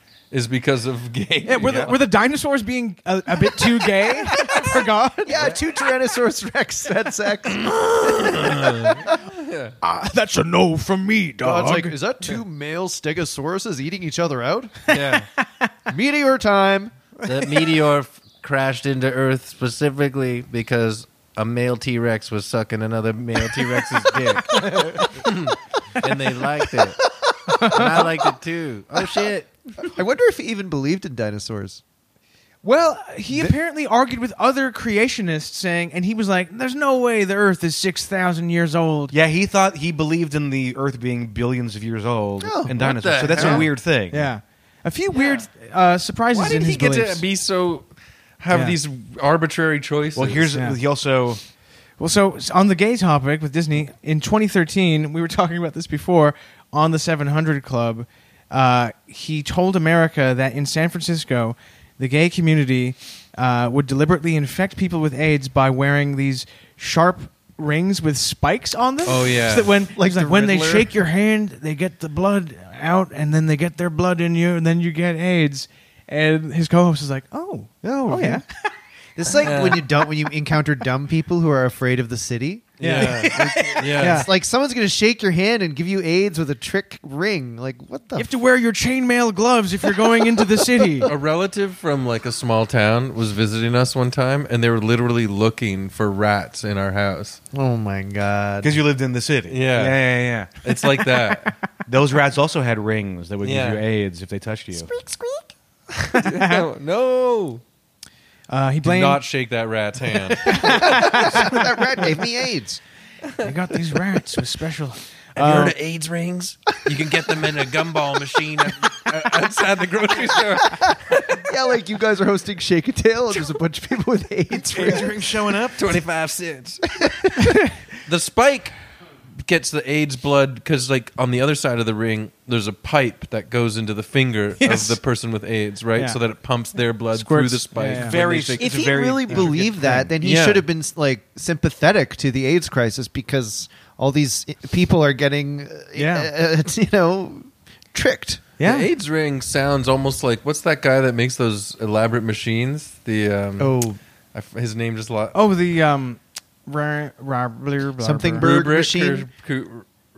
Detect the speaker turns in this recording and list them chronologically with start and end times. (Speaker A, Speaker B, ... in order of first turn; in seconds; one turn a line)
Speaker A: 0.3-2.0
Speaker B: 1.4-5.3
Speaker A: 4.0-5.6
Speaker C: 5.2-7.8
Speaker A: 7.5-9.8
Speaker B: 9.8-11.9
Speaker C: 11.4-14.9
Speaker A: 14.9-15.3
Speaker B: 15.4-15.7
Speaker C: 15.9-16.9
Speaker A: 17.2-27.0
Speaker B: 27.5-28.1
Speaker A: 27.7-29.5
Speaker C: 29.0-29.3
Speaker C: 29.8-31.8
Speaker B: 32.6-39.2
Speaker D: 39.1-44.3
Speaker C: 42.4-42.8
Speaker A: 42.7-43.7
Speaker C: 43.3-43.7
Speaker B: 44.1-47.2
Speaker A: 46.3-47.9
Speaker A: 48.4-50.5
Speaker B: 48.5-48.8
Speaker D: 50.1-51.4
Speaker B: 50.5-50.8
Speaker B: 52.0-78.7
Speaker A: 69.0-69.8
Speaker C: 69.9-70.9
Speaker D: 77.9-78.4
Speaker C: 79.2-88.3
Speaker B: 79.3-79.8
Speaker A: 79.4-79.8
Speaker A: 82.8-84.3
Speaker B: 82.8-84.3
Speaker B: 88.2-91.1
Speaker C: 90.0-91.1
Speaker A: 91.1-97.4
Speaker C: 97.5-98.7
Speaker D: 98.6-100.5
Speaker A: 99.5-101.6
Speaker D: 101.9-104.9
Speaker A: 103.4-103.8
Speaker C: 105.0-105.5
Speaker B: 106.0-106.7
Speaker A: 106.2-107.6
Speaker B: 108.5-109.2
Speaker A: 108.8-111.5
Speaker B: 110.4-111.6
Speaker C: 110.6-112.8
Speaker A: 113.2-113.5
Speaker B: 113.4-115.8
Speaker A: 115.4-121.5
Speaker C: 120.7-125.1
Speaker D: 124.5-125.9
Speaker A: 125.7-126.9
Speaker C: 127.0-127.3
Speaker A: 128.1-128.8
Speaker A: 129.4-138.7
Speaker B: 134.6-135.0
Speaker B: 137.1-138.2
Speaker D: 137.9-140.1
Speaker C: 138.6-148.5
Speaker A: 140.2-140.7
Speaker B: 146.0-146.3
Speaker B: 148.6-148.9
Speaker A: 148.6-153.8
Speaker C: 153.6-154.0
Speaker A: 154.3-155.4
Speaker B: 155.3-158.5
Speaker C: 158.0-159.3
Speaker A: 158.4-159.9